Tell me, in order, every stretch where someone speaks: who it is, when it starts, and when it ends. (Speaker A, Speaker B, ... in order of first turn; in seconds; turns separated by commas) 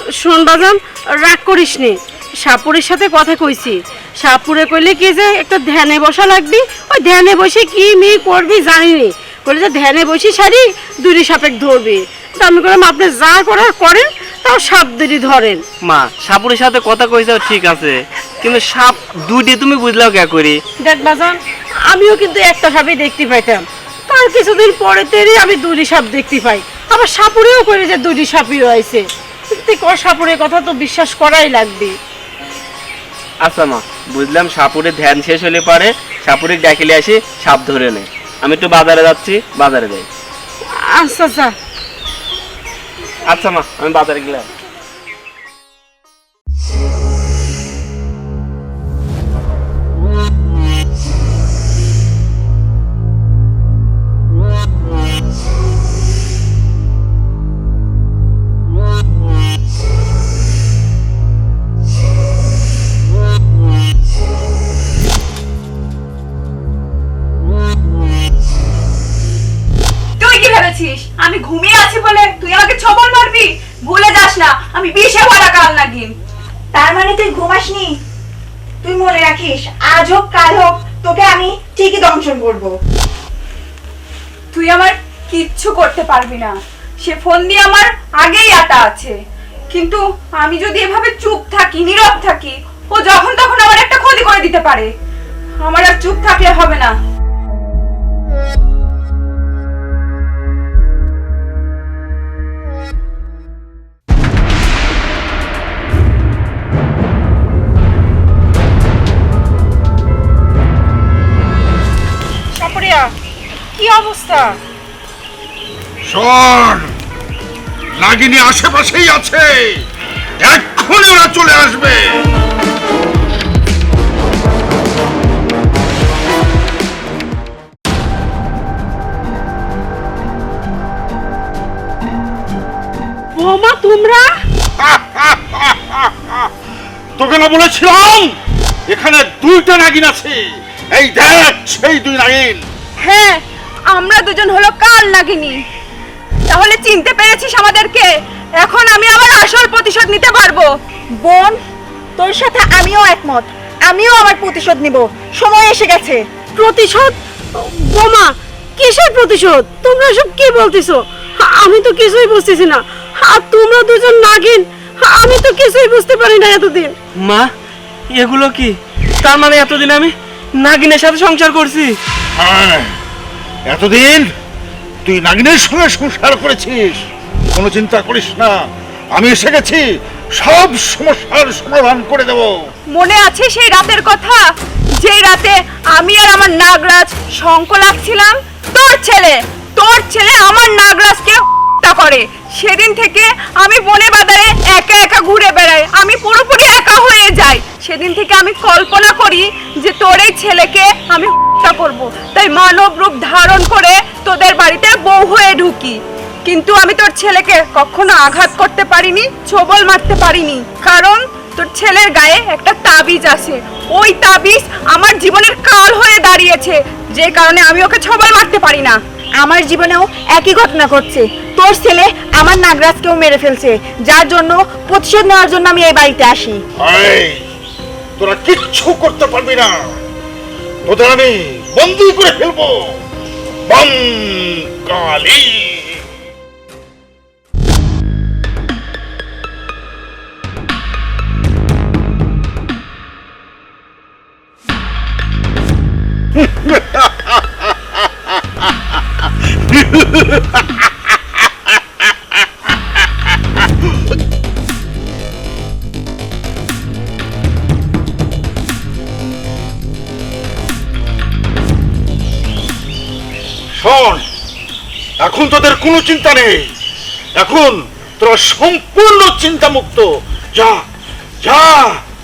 Speaker A: 0.2-15.6, Speaker B: 15.8-20.6, Speaker A: 20.8-31.9, Speaker B: 33.4-40.1, Speaker A: 40.9-41.5, Speaker B: 43.3-44.5, Speaker C: 70.2-76.1, Speaker D: 76.7-77.9, Speaker D: 78.8-82.7, Speaker C: 84.5-89.1, Speaker C: 89.7-94.9, Speaker C: 95.6-96.9, Speaker A: 112.5-113.1, Speaker A: 113.8-114.6, Speaker E: 116.0-116.9, Speaker E: 118.0-119.8, Speaker E: 120.4-122.3, Speaker A: 133.3-134.3, Speaker E: 134.8-136.5, Speaker E: 137.2-138.3, Speaker E: 138.9-142.6, Speaker C: 143.0-145.6, Speaker C: 146.5-148.1, Speaker C: 148.6-150.7, Speaker D: 151.2-151.6, Speaker D: 152.2-156.2, Speaker A: 156.6-166.9, Speaker B: 167.2-167.5, Speaker B: 168.1-172.0, Speaker E: 172.4-172.9, Speaker E: 173.7-174.2, Speaker E: 175.1-178.6, Speaker E: 179.1-179.8, Speaker E: 180.4-182.5, Speaker C: 182.9-184.4, Speaker C: 185.0-219.0, Speaker D: 219.4-226.6, Speaker E: 226.8-227.4, Speaker E: 228.2-230.0, Speaker E: 230.8-232.8, Speaker E: 233.7-236.0, Speaker E: 246.4-247.4, Speaker E: 249.7-250.6, Speaker E: 263.8-264.2, Speaker E: 265.2-266.6, Speaker E: 267.4-270.8, Speaker E: 271.4-272.0